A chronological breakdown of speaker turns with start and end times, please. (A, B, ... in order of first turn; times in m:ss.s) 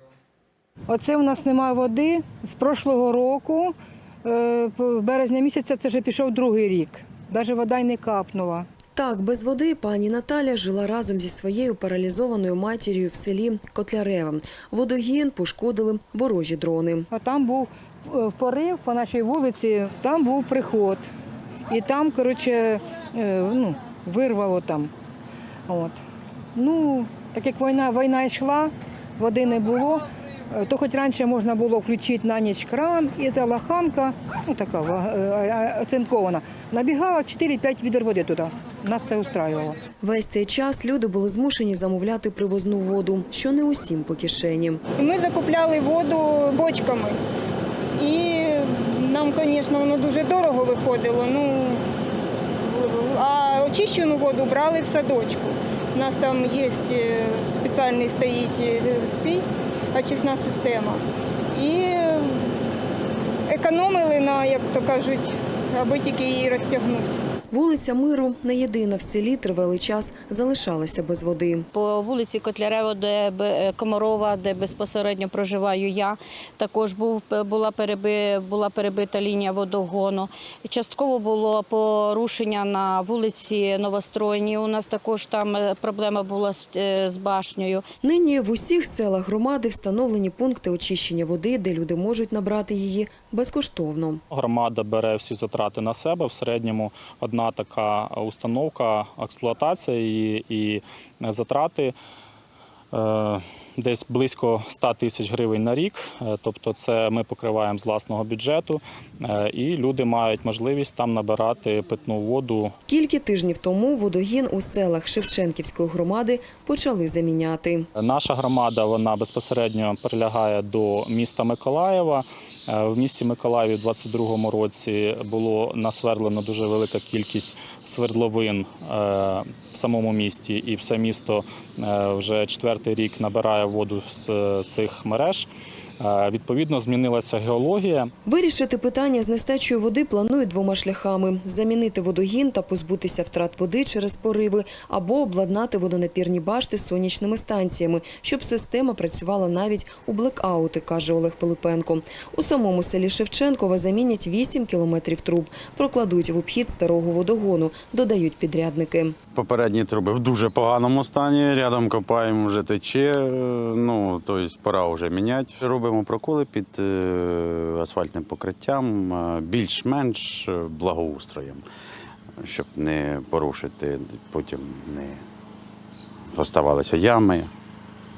0:00.9-0:08.7 A
0:09.0-0:17.1 B
0:17.1-0:21.0 A
0:21.7-0:24.9 A
0:25.7-0:26.0 A
0:26.6-0:39.8 A
0:40.0-0:44.8 B
0:45.0-0:47.1 C
0:48.0-0:51.8 C
0:52.7-0:59.4 C
0:59.9-1:01.0 C
1:01.6-1:02.3 C
1:03.5-1:07.1 C
1:07.5-1:11.6 B
1:11.7-1:27.8 D
1:28.0-1:34.2 B
1:34.3-1:41.9 E
1:42.9-1:52.7 E
1:52.9-1:57.9 B
1:58.0-2:15.5 E
2:16.0-2:18.1 E
2:18.2-2:39.2 B
2:39.3-2:51.6 F
2:52.4-2:55.2 F
2:56.3-2:57.5 F